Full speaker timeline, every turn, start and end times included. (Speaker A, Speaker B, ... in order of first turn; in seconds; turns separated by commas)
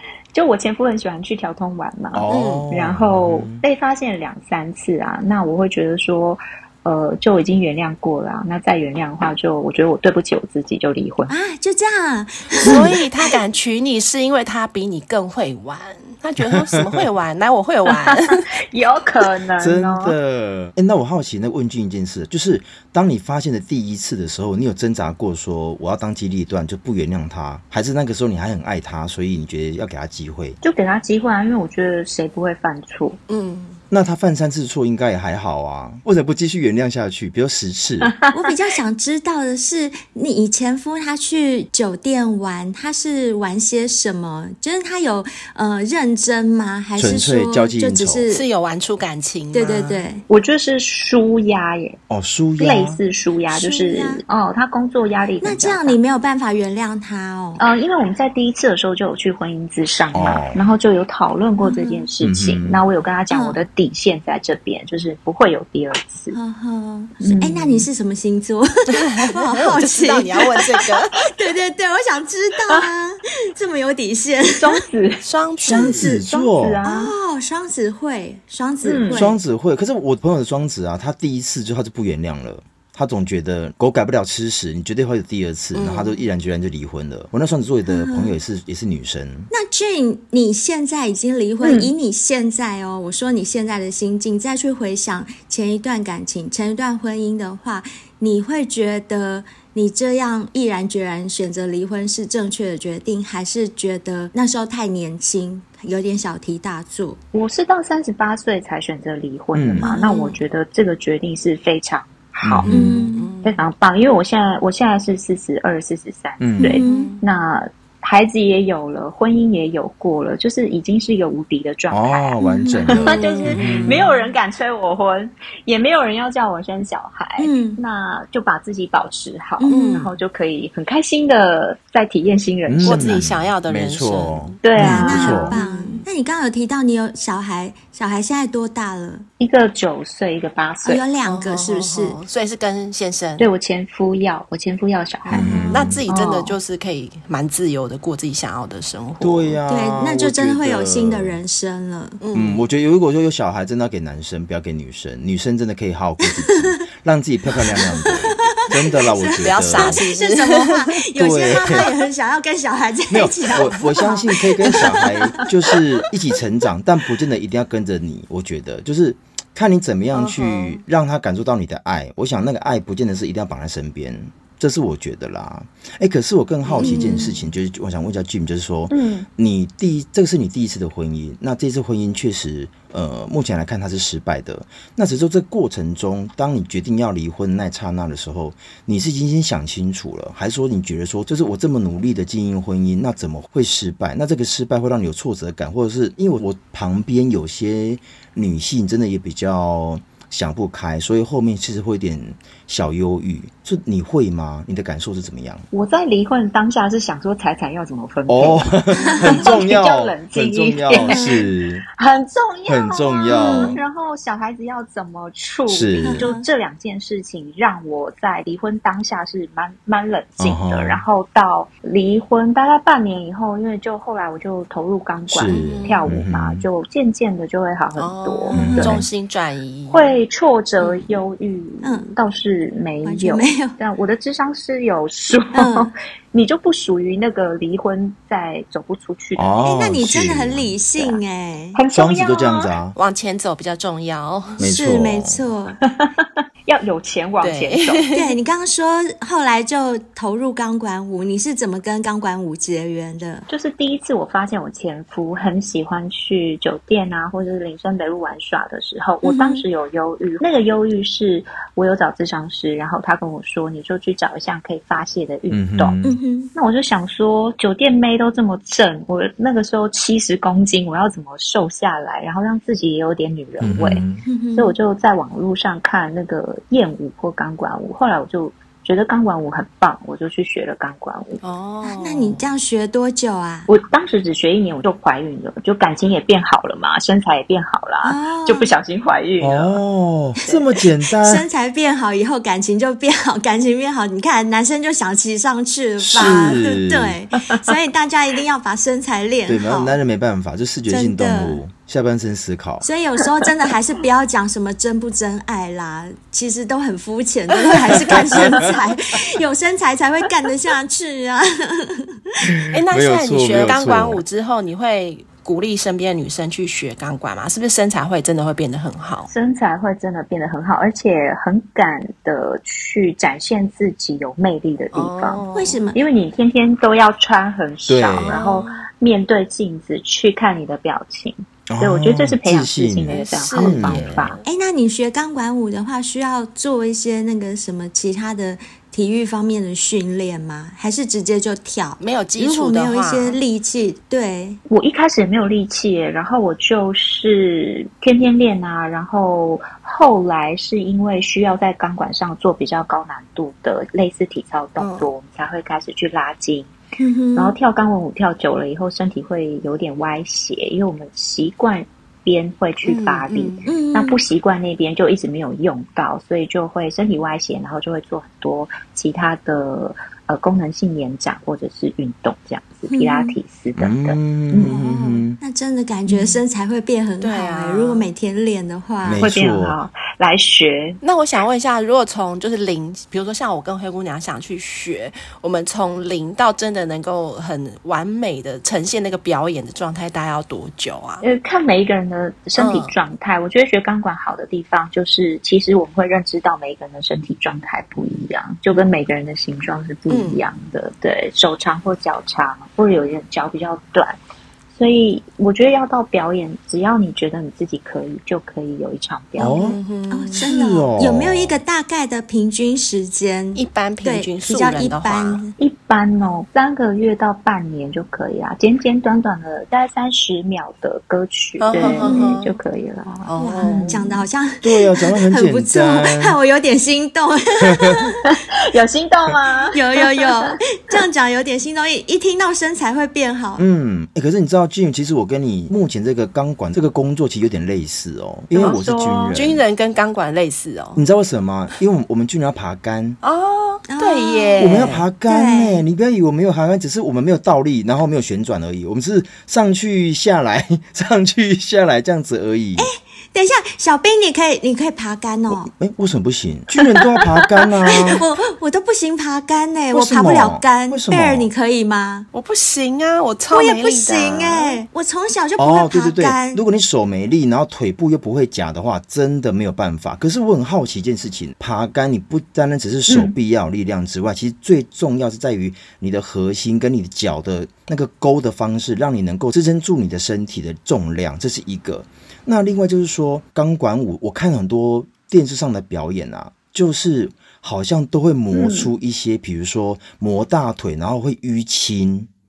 Speaker A: 0.3-11.3, Speaker B: 2.1-3.6, Speaker C: 2.3-2.7, Speaker D: 11.3-12.9, Speaker C: 12.6-18.4, Speaker B: 16.4-17.0, Speaker A: 17.9-20.1, Speaker B: 19.6-30.6, Speaker A: 30.6-33.2, Speaker C: 33.3-33.8, Speaker B: 33.9-38.1, Speaker A: 38.0-38.3, Speaker D: 38.3-48.4, Speaker B: 47.0-48.2, Speaker C: 48.3-50.0, Speaker D: 49.5-50.2, Speaker A: 50.3-52.0, Speaker B: 52.1-53.0, Speaker A: 52.6-56.0, Speaker D: 53.5-54.2, Speaker D: 55.4-57.6, Speaker A: 57.6-66.3, Speaker B: 60.1-60.6, Speaker D: 61.6-62.1, Speaker B: 62.2-62.8, Speaker D: 63.3-63.6, Speaker D: 66.3-74.8, Speaker A: 67.2-67.9, Speaker C: 69.2-71.1, Speaker A: 74.6-77.1, Speaker C: 75.2-76.1, Speaker B: 75.6-76.8, Speaker D: 76.8-79.4, Speaker A: 78.8-79.3, Speaker B: 79.1-89.5, Speaker C: 85.7-86.2, Speaker D: 87.9-88.4, Speaker D: 89.5-107.2, Speaker A: 91.6-91.9, Speaker A: 107.3-112.7, Speaker B: 109.5-109.9, Speaker D: 109.8-110.4, Speaker B: 112.4-113.0, Speaker C: 112.7-113.6, Speaker D: 112.7-113.3, Speaker A: 113.4-122.3, Speaker B: 116.4-116.8, Speaker D: 116.6-117.1, Speaker C: 116.8-117.2, Speaker B: 121.9-124.0, Speaker D: 122.4-123.0, Speaker A: 122.9-133.2, Speaker C: 122.9-124.1, Speaker D: 127.4-127.8, Speaker D: 129.6-130.1, Speaker C: 129.7-130.1, Speaker B: 132.7-135.5, Speaker C: 132.8-136.0, Speaker A: 134.6-135.6, Speaker D: 134.8-139.2, Speaker A: 139.4-141.0, Speaker D: 140.8-142.2, Speaker C: 141.2-143.5, Speaker A: 143.4-145.6, Speaker C: 145.3-149.6, Speaker B: 145.3-146.0, Speaker D: 145.4-145.7, Speaker A: 146.1-146.6, Speaker B: 149.2-151.4, Speaker D: 149.7-152.2, Speaker C: 152.2-152.6, Speaker B: 152.3-160.0, Speaker D: 158.1-165.1, Speaker C: 159.4-161.0, Speaker B: 161.2-161.9, Speaker C: 161.6-161.9, Speaker B: 163.1-205.7, Speaker C: 164.7-165.1, Speaker C: 170.1-170.8, Speaker C: 176.7-177.2, Speaker D: 176.8-177.4, Speaker A: 178.9-179.3, Speaker A: 205.7-211.4, Speaker B: 208.3-211.8, Speaker D: 210.9-211.4, Speaker A: 212.0-229.0, Speaker B: 212.7-213.8, Speaker D: 213.3-213.8, Speaker B: 215.7-216.3, Speaker D: 216.0-216.4, Speaker B: 220.4-221.0, Speaker B: 225.3-226.6, Speaker C: 225.5-226.0, Speaker C: 227.9-230.1, Speaker D: 228.5-228.9, Speaker B: 228.5-229.1, Speaker A: 229.9-239.7, Speaker C: 230.8-231.2, Speaker D: 231.8-232.1, Speaker D: 233.0-233.8, Speaker D: 235.5-235.9, Speaker B: 239.3-240.7, Speaker D: 239.6-241.8, Speaker A: 241.8-242.7, Speaker B: 241.9-242.9, Speaker C: 242.9-244.6, Speaker B: 244.6-245.4, Speaker D: 244.6-245.8, Speaker A: 245.8-248.0, Speaker C: 247.4-248.3, Speaker D: 248.1-253.5, Speaker A: 253.5-265.9, Speaker D: 259.2-259.6, Speaker B: 265.5-266.2, Speaker D: 266.0-266.5, Speaker A: 266.5-274.0, Speaker B: 273.6-274.2, Speaker D: 274.2-274.7, Speaker A: 274.5-281.4, Speaker C: 281.4-282.4, Speaker D: 281.8-283.7, Speaker A: 283.7-289.8, Speaker D: 288.0-288.7, Speaker B: 289.4-291.4, Speaker D: 291.2-300.0, Speaker B: 296.0-297.2, Speaker A: 296.1-296.6, Speaker B: 299.5-302.9, Speaker D: 300.9-301.6, Speaker D: 302.8-312.2, Speaker B: 308.2-308.7, Speaker B: 312.5-314.2, Speaker C: 312.7-319.3, Speaker A: 319.3-325.4, Speaker C: 324.9-325.8, Speaker D: 325.5-326.0, Speaker A: 325.9-334.4, Speaker B: 327.9-328.4, Speaker C: 328.2-328.8, Speaker B: 331.7-334.3, Speaker C: 333.1-334.4, Speaker D: 334.4-344.6, Speaker C: 342.0-343.4, Speaker A: 344.7-356.7, Speaker C: 354.8-355.1, Speaker D: 357.0-357.6, Speaker A: 357.4-374.7, Speaker C: 362.8-363.6, Speaker D: 363.7-364.2, Speaker D: 372.9-373.4, Speaker B: 373.8-375.4, Speaker D: 374.6-379.3, Speaker C: 377.2-378.1, Speaker B: 379.0-379.8, Speaker A: 379.2-381.0, Speaker C: 381.0-391.2, Speaker A: 391.2-404.2, Speaker C: 392.6-392.9, Speaker C: 400.1-400.4, Speaker A: 404.8-409.6, Speaker B: 409.4-409.8, Speaker C: 409.5-410.5, Speaker D: 410.1-415.5, Speaker B: 410.4-411.6, Speaker C: 413.5-415.4, Speaker A: 415.6-424.0, Speaker C: 421.6-422.5, Speaker D: 421.8-422.3, Speaker C: 423.2-424.0, Speaker D: 423.4-428.2, Speaker B: 424.6-426.4, Speaker B: 427.7-428.0, Speaker A: 428.3-430.5, Speaker D: 429.7-433.6, Speaker B: 433.6-439.6, Speaker A: 438.5-439.4, Speaker C: 439.3-441.0, Speaker B: 440.9-443.2, Speaker C: 443.2-445.0, Speaker D: 443.9-445.8, Speaker B: 444.6-452.9, Speaker D: 452.8-455.7, Speaker B: 455.5-458.2, Speaker D: 457.9-462.3, Speaker B: 459.9-461.5, Speaker C: 462.3-464.8, Speaker D: 463.5-466.6, Speaker B: 465.6-492.3, Speaker A: 473.1-473.3, Speaker A: 488.5-488.9